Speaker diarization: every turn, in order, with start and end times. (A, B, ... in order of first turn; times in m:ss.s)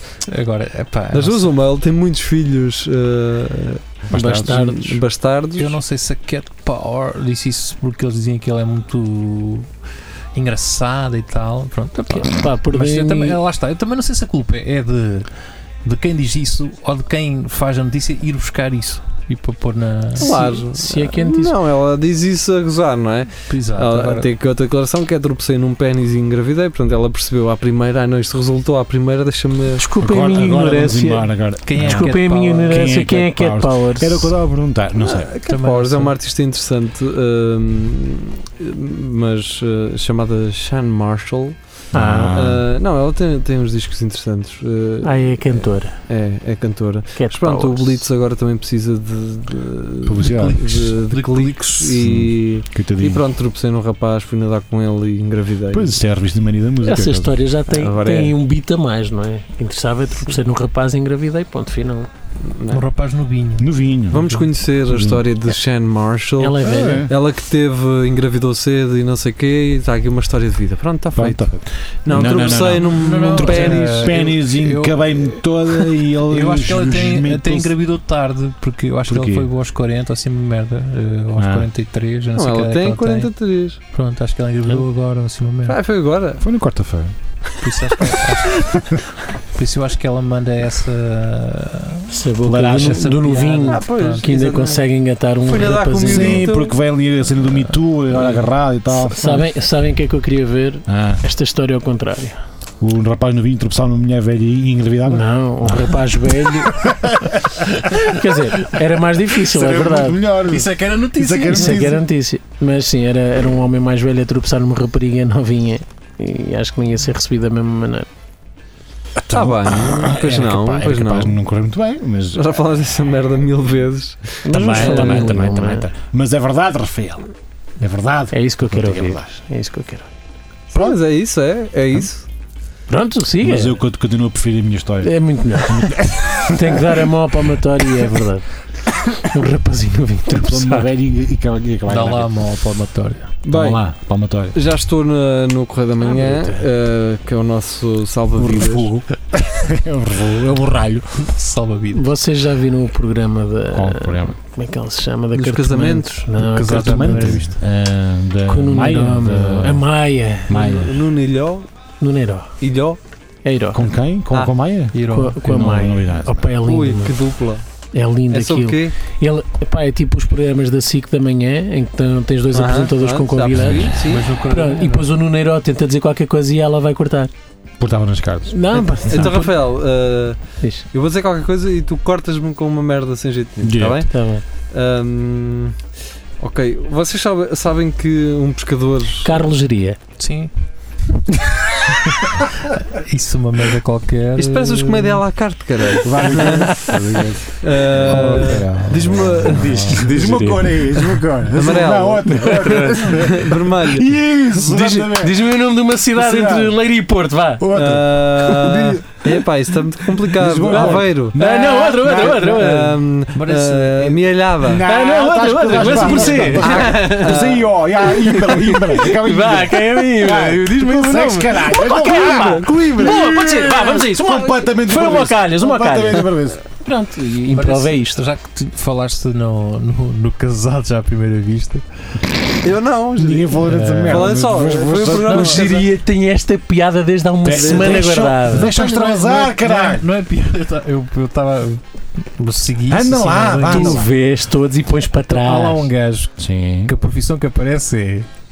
0:00.3-0:01.5 A
0:01.1-0:05.8 B
0:04.1-0:04.7 C
0:04.1-0:05.0 D
0:05.6-0:09.7 A
0:10.4-0:15.3 A
0:12.1-0:13.4 D
0:15.8-0:20.5 A
0:20.2-0:21.6 D
0:20.2-0:29.8 B
0:23.5-0:24.3 A
0:29.8-0:34.4 D
0:30.0-0:32.1 C
0:31.7-0:33.1 A
0:32.7-0:35.3 C
0:35.0-0:41.6 B
0:35.5-0:36.1 A
0:41.9-0:42.4 D
0:41.9-0:42.7 C
0:42.3-0:56.0 B
0:45.0-0:46.0 D
0:47.2-0:48.1 D
0:50.1-0:50.7 C
0:50.3-0:52.0 A
0:52.0-0:53.3 C
0:55.7-0:57.4 C
0:56.8-1:02.1 D
0:57.7-0:58.4 B
1:02.4-1:02.8 B
1:02.7-1:04.5 A
1:03.6-1:04.3 C
1:04.1-1:14.2 B
1:04.9-1:05.2 C
1:06.4-1:07.1 D
1:06.6-1:07.1 C
1:11.2-1:17.7 C
1:12.1-1:15.1 A
1:16.3-1:25.8 A
1:19.1-1:19.5 C
1:21.4-1:21.7 C
1:22.4-1:23.8 B
1:25.7-1:26.4 B
1:26.4-1:27.1 C
1:27.6-1:28.7 A
1:29.6-1:32.1 A
1:32.1-1:36.5 D
1:32.4-1:33.0 C
1:32.8-1:34.3 A
1:33.7-1:34.9 B
1:35.4-1:36.8 B
1:36.0-1:39.2 C
1:38.9-1:42.4 D
1:40.9-1:41.2 C
1:42.8-1:47.5 C
1:45.1-1:46.9 D
1:47.8-1:50.2 D
1:49.4-1:52.0 C
1:50.5-1:51.9 A
1:51.5-1:58.1 D
1:59.3-2:02.6 C
1:59.3-2:01.4 B
2:02.3-2:05.3 B
2:04.4-2:05.9 D
2:04.5-2:07.3 C
2:07.8-2:09.3 C
2:08.3-2:10.1 D
2:10.7-2:12.3 B
2:12.9-2:13.8 D
2:13.4-2:17.1 C
2:15.0-2:18.5 D
2:19.2-2:20.9 D
2:20.3-2:22.3 C
2:21.9-2:23.3 A
2:23.5-2:23.8 B
2:23.5-2:24.6 C
2:24.5-2:28.9 B
2:26.0-2:26.6 D
2:28.4-2:31.2 C
2:31.2-2:32.1 A
2:31.9-2:37.4 D
2:33.7-2:34.4 C
2:35.3-2:36.3 B
2:36.4-2:37.6 A
2:36.7-2:39.9 C
2:38.5-2:40.9 D
2:40.5-2:41.0 C
2:40.5-2:41.7 B
2:42.0-2:42.5 D
2:42.6-2:43.0 B
2:43.4-2:43.9 D
2:43.7-2:46.5 C
2:44.9-2:45.5 A
2:45.1-2:47.2 D
2:46.6-2:47.6 B
2:47.9-2:54.0 D
2:48.3-2:49.0 B
2:52.5-2:54.3 B
2:53.9-2:55.1 A
2:54.5-2:57.3 D
2:57.8-2:58.6 C
2:58.5-2:59.6 D
2:58.7-3:00.4 B
3:00.9-3:04.1 B
3:03.6-3:04.0 C
3:04.1-3:04.4 D
3:04.7-3:05.8 B
3:06.4-3:09.5 B
3:09.2-3:10.0 D
3:10.2-3:10.5 A
3:12.8-3:15.2 A
3:14.4-3:16.7 B
3:16.0-3:25.4 C
3:17.6-3:20.7 B
3:18.1-3:19.9 A
3:20.0-3:20.4 D
3:21.5-3:24.1 B
3:22.3-3:23.2 D
3:24.6-3:27.7 D
3:26.1-3:26.8 C
3:27.6-3:29.0 C
3:27.7-3:31.4 B
3:30.4-3:32.6 C
3:30.7-3:33.0 D
3:32.2-3:34.9 B
3:33.3-3:34.2 A
3:34.7-3:46.6 C
3:34.8-3:37.4 D
3:35.7-3:37.7 B
3:38.2-3:48.2 D
3:41.8-3:43.5 B
3:47.5-3:51.8 A
3:52.6-3:55.9 B
3:53.2-3:55.6 C
3:53.7-3:54.4 A
3:55.3-3:55.6 A
3:55.3-3:58.7 D
3:57.4-4:00.1 C
3:57.4-3:58.1 B
3:58.6-4:04.0 A
4:02.9-4:04.1 C
4:03.7-4:05.9 D
4:05.3-4:06.3 A
4:06.4-4:06.9 C
4:06.9-4:08.3 A